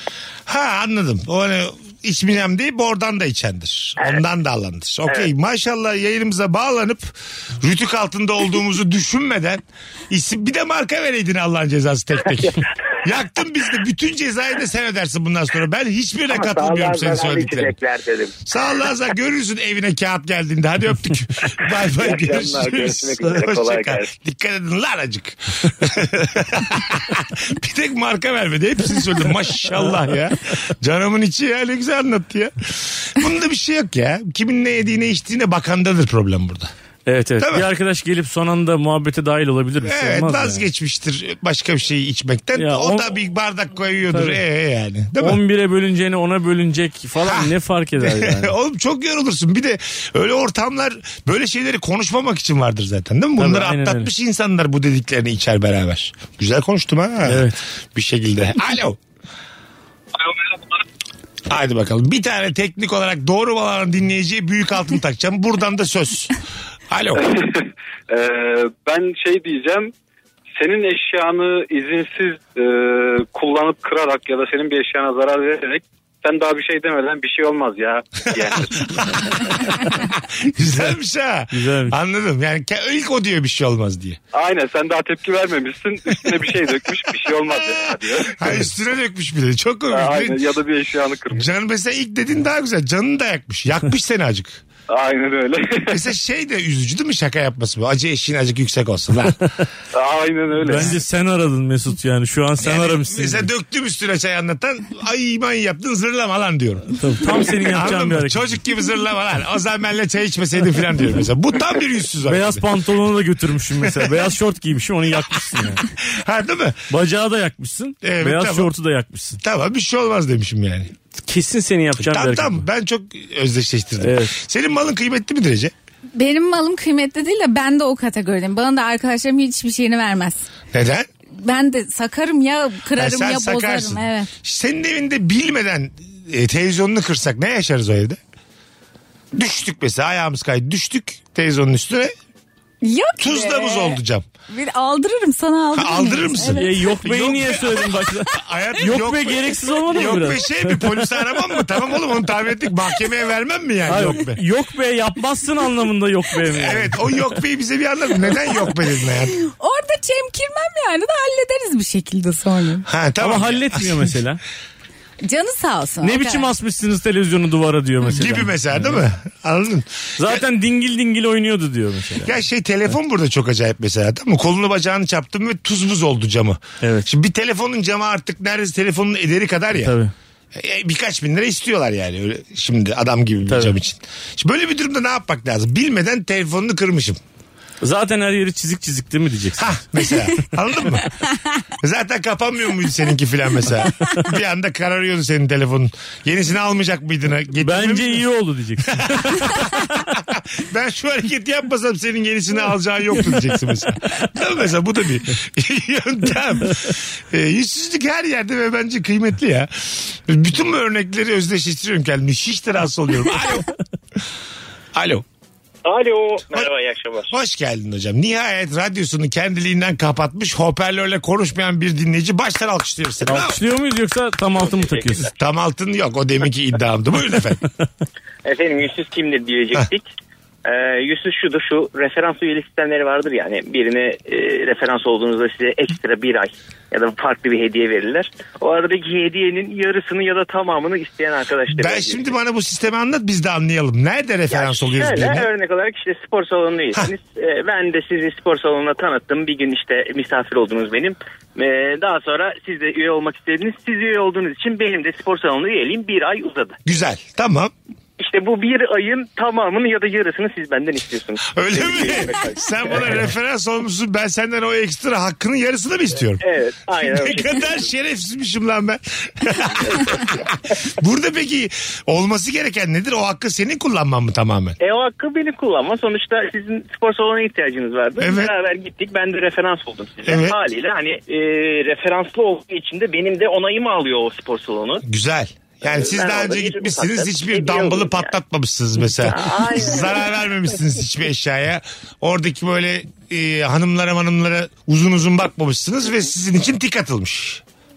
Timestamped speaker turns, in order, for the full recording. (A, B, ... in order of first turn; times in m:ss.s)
0:00.5-0:17.7 A
0:16.3-0:18.4 B
0:18.4-0:36.7 A
0:23.2-0:23.9 B
0:37.0-0:40.6 C
0:37.4-0:37.6 A
0:39.8-0:45.4 A
0:42.6-0:43.1 C
0:44.1-0:44.4 C
0:45.2-0:48.5 C
0:47.2-0:59.0 A
0:53.4-0:54.1 C
0:57.2-0:57.6 C
1:01.5-1:06.4 A
1:06.9-1:07.2 A
1:07.1-1:09.9 D
1:10.5-1:19.2 D
1:20.4-1:24.2 A
1:21.5-1:22.0 C
1:24.3-1:28.5 D
1:28.2-1:30.5 A
1:29.9-1:31.5 D
1:31.3-1:34.6 A
1:34.9-1:36.0 D
1:35.9-1:39.4 A
1:39.9-1:40.9 D
1:40.6-1:43.5 C
1:42.6-1:52.6 A
1:47.0-1:48.6 C
1:52.2-1:55.8 C
1:56.0-1:56.8 A
1:56.9-1:59.4 C
1:58.0-1:58.7 A
1:59.4-2:00.9 A
2:01.2-2:02.6 C
2:02.0-2:05.7 A
2:04.0-2:04.3 C
2:06.1-2:10.5 E
2:10.7-2:11.1 A
2:11.4-2:14.3 E
2:12.9-2:18.2 A
2:19.3-2:22.1 A
2:22.8-2:26.7 E
2:23.2-2:24.2 A
2:25.8-2:34.4 A
2:26.5-2:31.0 C
2:33.8-2:37.2 C
2:36.5-2:39.3 A
2:39.4-2:42.8 E
2:42.8-2:44.1 A
2:43.2-2:44.4 C
2:45.2-2:46.5 E
2:46.0-2:49.0 C
2:48.0-2:50.4 A
2:50.2-2:52.3 C
2:52.2-2:59.9 A
2:56.8-2:57.1 C
2:59.8-3:00.1 C
3:00.5-3:07.2 A
3:03.5-3:03.8 C
3:07.8-3:09.8 C
3:09.6-3:11.1 A
3:11.8-3:18.2 A
3:17.6-3:19.8 C
3:19.0-3:33.7 A
3:34.9-3:35.2 A
3:35.8-3:37.3 F
3:37.3-3:43.6 A
3:43.2-3:45.3 C
3:44.6-3:45.3 F
3:45.4-3:47.6 A
3:48.4-3:50.1 F
3:50.6-4:02.3 F
4:01.7-4:05.5 A
4:04.5-4:16.8 F
4:16.8-4:17.7 A
4:18.2-4:23.2 F
4:21.5-4:26.4 A
4:26.4-4:27.8 F
4:27.0-4:30.4 A
4:29.9-4:30.2 F
4:31.0-4:34.8 A
4:34.8-4:45.0 F
4:38.2-4:38.5 A
4:40.2-4:40.6 A
4:45.0-4:57.6 A
4:45.8-4:48.3 F
4:49.2-4:50.3 F